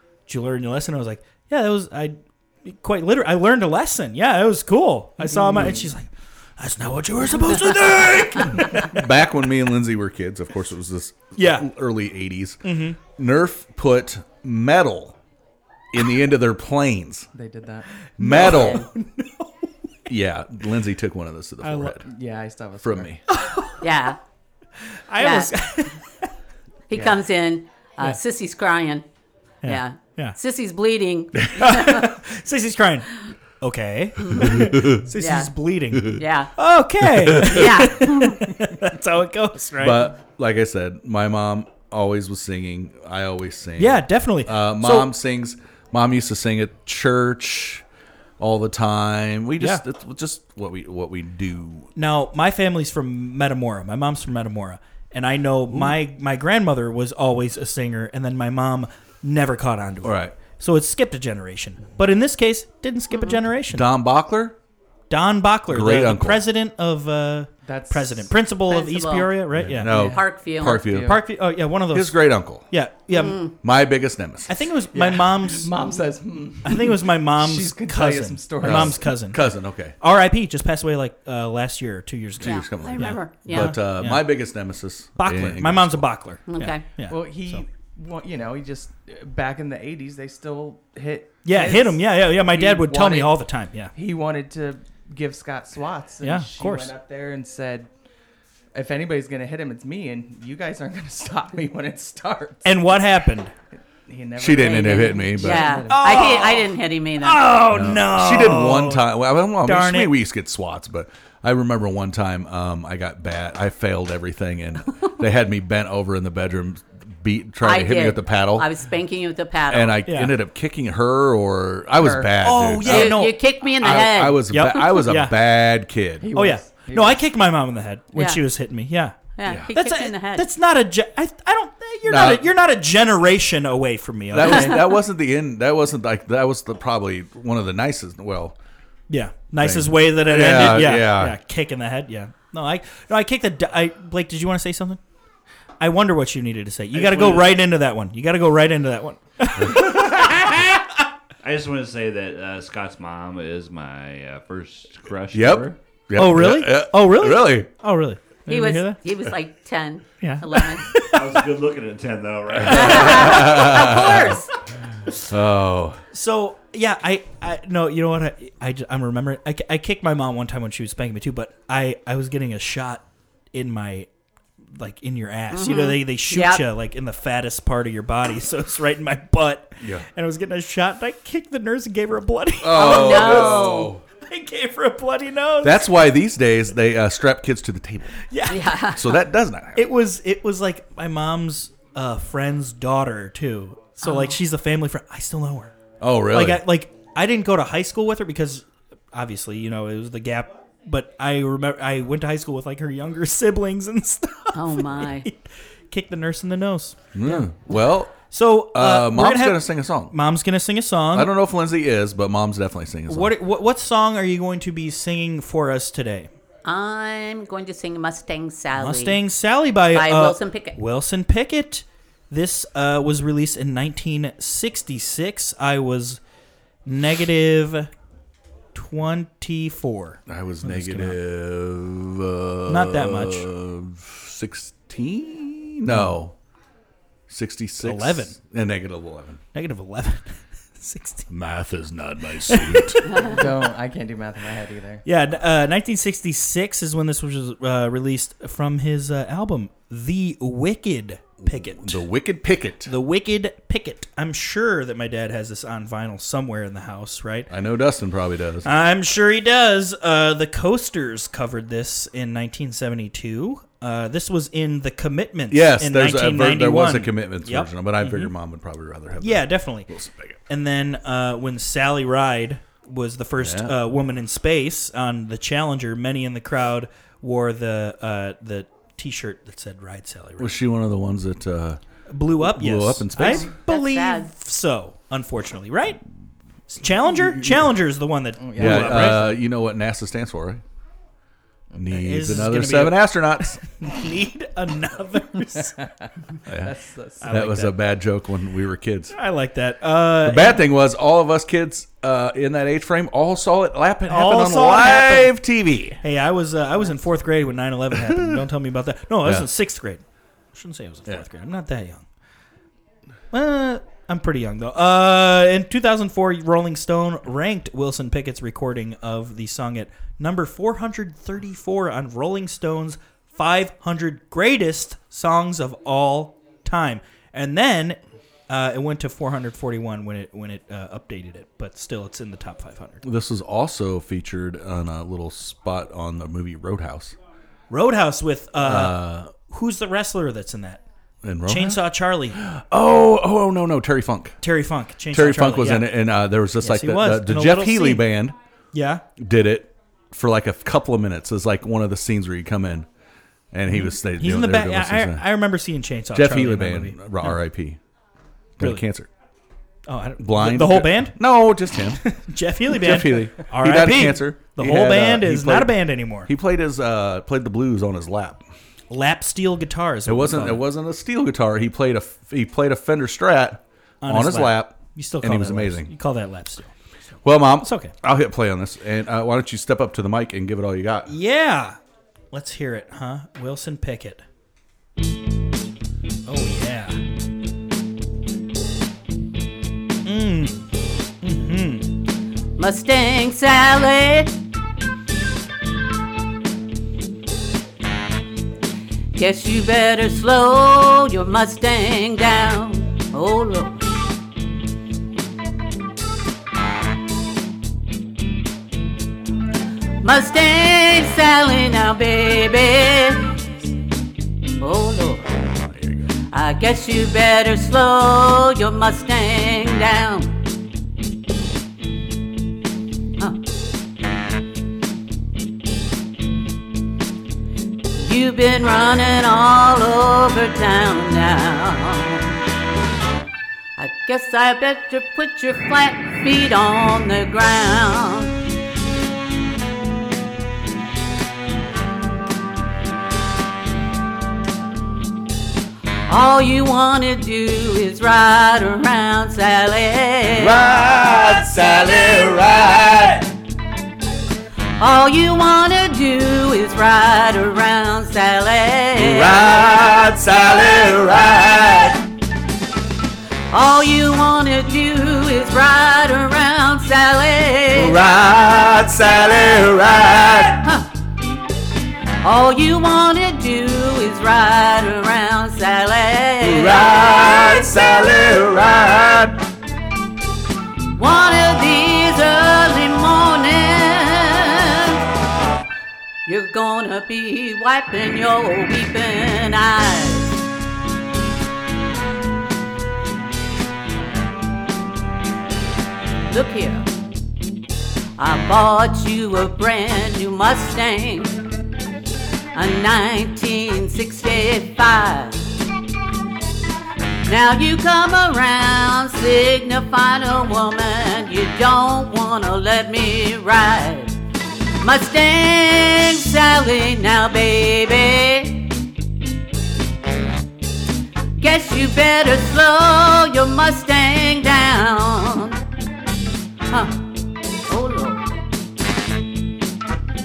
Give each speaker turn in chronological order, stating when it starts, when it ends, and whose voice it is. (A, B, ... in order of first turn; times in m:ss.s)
0:00.3-0:09.1 A
0:05.2-0:05.9 B
0:07.6-0:15.2 C
0:11.4-0:11.7 A
0:12.6-0:13.0 A
0:15.9-0:17.3 C
0:17.3-0:17.9 B
0:18.2-0:18.9 C
0:18.2-0:19.7 A
0:18.4-0:18.8 D
0:20.1-0:22.1 C
0:21.6-0:22.0 A
0:22.0-0:23.1 B
0:22.8-0:23.2 C
0:23.3-0:23.8 A
0:23.8-0:24.2 D
0:25.1-0:26.3 A
0:25.2-0:25.5 D
0:26.9-0:29.0 D
0:26.9-0:27.2 B
0:29.6-0:30.4 A
0:29.7-0:32.1 D
0:31.6-0:33.1 A
0:33.6-0:40.1 A
0:34.4-0:35.0 C
0:35.2-0:35.5 D
0:35.9-0:36.2 C
0:36.0-0:36.5 D
0:37.0-0:37.8 C
0:37.5-0:38.5 D
0:39.8-0:47.8 C
0:43.8-0:45.1 A
0:48.4-0:51.9 C
0:52.0-1:03.9 A
0:55.7-0:56.0 C
1:00.0-1:00.4 C
1:03.7-1:04.6 C
1:05.1-1:10.0 A
1:05.7-1:06.4 C
1:07.6-1:08.3 B
1:08.7-1:09.4 D
1:09.6-1:11.2 C
1:09.8-1:11.2 B
1:09.9-1:10.8 D
1:10.9-1:13.4 A
1:11.9-1:12.6 C
1:13.1-1:13.5 D
1:13.6-1:14.5 C
1:14.5-1:15.7 A
1:14.9-1:19.1 B
1:16.6-1:19.4 A
1:18.6-1:20.0 C
1:20.0-1:24.2 A
1:22.4-1:26.1 C
1:22.4-1:23.8 D
1:25.2-1:27.6 A
1:26.5-1:26.8 D
1:27.1-1:33.4 B
1:31.4-1:33.9 A
1:34.0-1:37.9 B
1:36.2-1:36.9 A
1:38.7-1:42.8 B
1:42.6-1:43.5 A
1:44.1-1:46.6 B
1:44.4-1:45.8 C
1:44.6-1:47.6 D
1:45.9-1:49.1 A
1:47.7-1:58.7 C
1:49.6-1:50.2 A
1:57.6-2:00.0 D
1:59.7-2:06.3 C
2:00.1-2:00.3 A
2:02.0-2:02.3 B
2:02.4-2:03.3 A
2:02.9-2:04.4 D
2:04.5-2:05.4 A
2:06.2-2:07.2 B
2:06.3-2:09.2 A
2:08.2-2:08.4 D
2:09.4-2:10.5 D
2:09.7-2:14.8 A
2:12.0-2:12.5 C
2:14.3-2:18.6 C
2:19.1-2:25.0 A
2:19.6-2:21.4 C
2:25.8-2:30.6 A
2:26.9-2:27.6 E
2:29.6-2:30.4 C
2:31.4-2:35.8 E
2:35.3-2:37.7 C
2:36.2-2:39.0 A
2:38.5-2:40.9 D
2:40.2-2:41.4 A
2:41.1-2:43.3 E
2:42.6-2:44.4 C
2:42.6-2:43.7 A
2:42.7-2:44.5 D
2:45.2-2:46.0 C
2:46.1-2:54.1 A
2:54.7-3:03.6 A
2:55.5-2:56.6 D
2:59.8-3:00.0 C
3:02.6-3:04.0 C
3:02.7-3:03.9 D
3:04.2-3:05.9 A
3:05.6-3:08.2 C
3:08.3-3:08.7 A
3:08.5-3:09.1 D
3:08.9-3:09.9 C
3:09.8-3:15.7 A
3:14.0-3:14.4 D
3:16.0-3:16.6 C
3:16.3-3:27.5 A
3:24.5-3:25.3 D
3:27.1-3:28.2 C
3:28.2-3:31.3 A
3:28.7-3:30.1 C
3:31.1-3:33.3 C
3:33.1-3:36.3 A
3:36.6-3:39.2 D
3:38.7-3:46.2 A
3:39.9-3:40.8 D
3:46.8-3:47.9 A
3:48.7-3:51.2 A
3:50.3-3:56.3 C
3:52.7-3:53.5 A
3:57.3-3:59.4 C
3:57.8-3:58.4 A
3:59.5-4:01.3 A
4:01.3-4:03.3 C
4:02.5-4:03.2 A
4:03.2-4:05.0 B
4:05.0-4:12.0 A
4:11.4-4:12.9 C
4:12.9-4:17.5 A
4:17.5-4:18.7 C
4:18.6-4:28.3 A
4:25.5-4:30.4 C
4:29.2-4:29.9 A
4:30.5-4:40.6 A
4:33.4-4:33.8 C
4:40.4-4:41.8 C
4:42.1-4:46.0 A
4:42.4-4:43.5 C
4:43.2-4:44.3 D
4:46.7-4:49.4 A
4:48.4-4:49.3 B
4:48.6-4:50.6 C
4:51.8-4:53.6 C
4:51.9-4:55.8 A
4:56.5-4:56.7 C
4:56.5-4:57.4 B
4:57.2-4:57.8 A
4:57.3-4:59.2 C
4:59.2-5:00.6 A
5:00.2-5:06.0 C
5:04.1-5:05.3 A
5:06.0-5:10.0 A
5:07.9-5:08.4 C
5:09.2-5:09.5 C
5:10.5-5:12.0 A
5:13.3-5:28.0 A
5:28.5-5:33.0 A
5:33.0-5:37.2 C
5:37.7-5:40.8 A
5:38.6-5:39.3 C
5:41.2-5:41.8 C
5:41.5-5:42.4 A
5:42.3-5:44.4 C
5:44.4-5:46.0 A
5:45.1-5:48.4 C
5:46.6-5:48.1 A
5:48.7-5:49.0 A
5:49.2-5:52.9 C
5:53.5-5:55.3 C
5:53.7-5:57.3 A
5:56.1-5:57.8 C
5:58.6-5:59.1 C
5:59.9-6:01.2 A
6:00.2-6:02.0 C
6:02.0-6:06.3 A
6:02.7-6:08.4 C
6:08.9-6:10.6 A
6:10.1-6:15.9 C
6:14.0-6:16.7 A
6:17.2-6:21.1 C
6:17.6-6:17.9 A
6:21.1-6:21.8 A
6:22.3-6:24.2 A
6:26.3-6:27.0 A
6:30.0-6:30.6 A
6:31.2-6:31.9 A
6:32.6-6:34.4 D
6:39.2-6:43.8 D
6:50.0-6:53.4 D
6:54.6-6:55.3 D
6:55.4-6:56.1 C
6:56.3-7:00.3 D
7:08.0-7:12.4 D
7:13.8-7:18.3 D
7:26.1-7:30.6 D
7:30.4-7:33.3 C
7:34.8-7:39.4 D
7:39.0-7:42.0 C
7:43.5-7:48.0 D
7:47.7-7:50.7 C
7:52.2-7:57.7 D
7:56.4-7:59.4 C
8:01.0-8:05.0 D
8:06.3-8:10.3 D
8:16.3-8:16.9 D
8:18.2-8:21.4 D
8:22.5-8:25.4 D
8:27.3-8:34.1 D
8:34.8-8:38.7 D
8:41.4-8:45.6 D
8:46.7-8:47.0 D
8:47.7-8:48.3 D